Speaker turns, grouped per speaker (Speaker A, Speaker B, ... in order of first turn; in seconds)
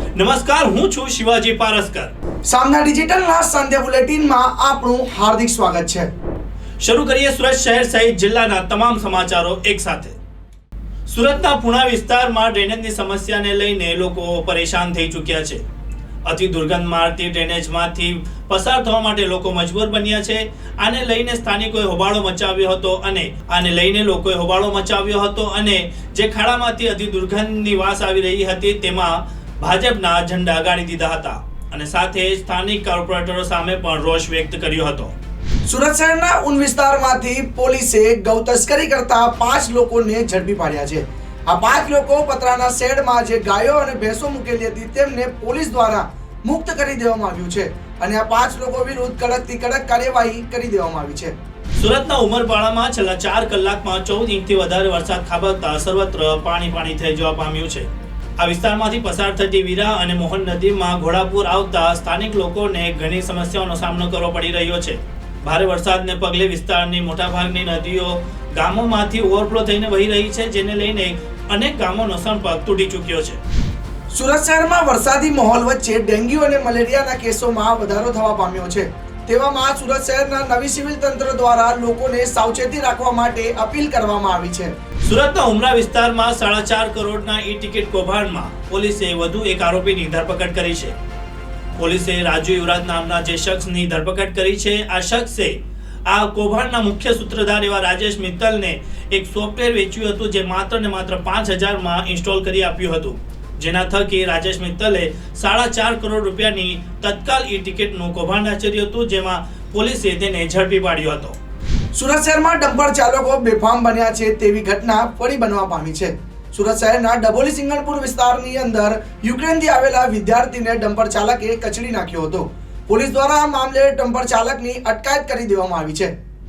Speaker A: 0.2-2.1, 6.8-10.2, 11.1-15.6, 16.2-35.1, 51.8-57.9, 58.4-73.4, 85.0-91.0, 91.8-111.4
Speaker B: 2.5-6.1, 35.7-51.3, 74.1-84.7, 111.9-126.1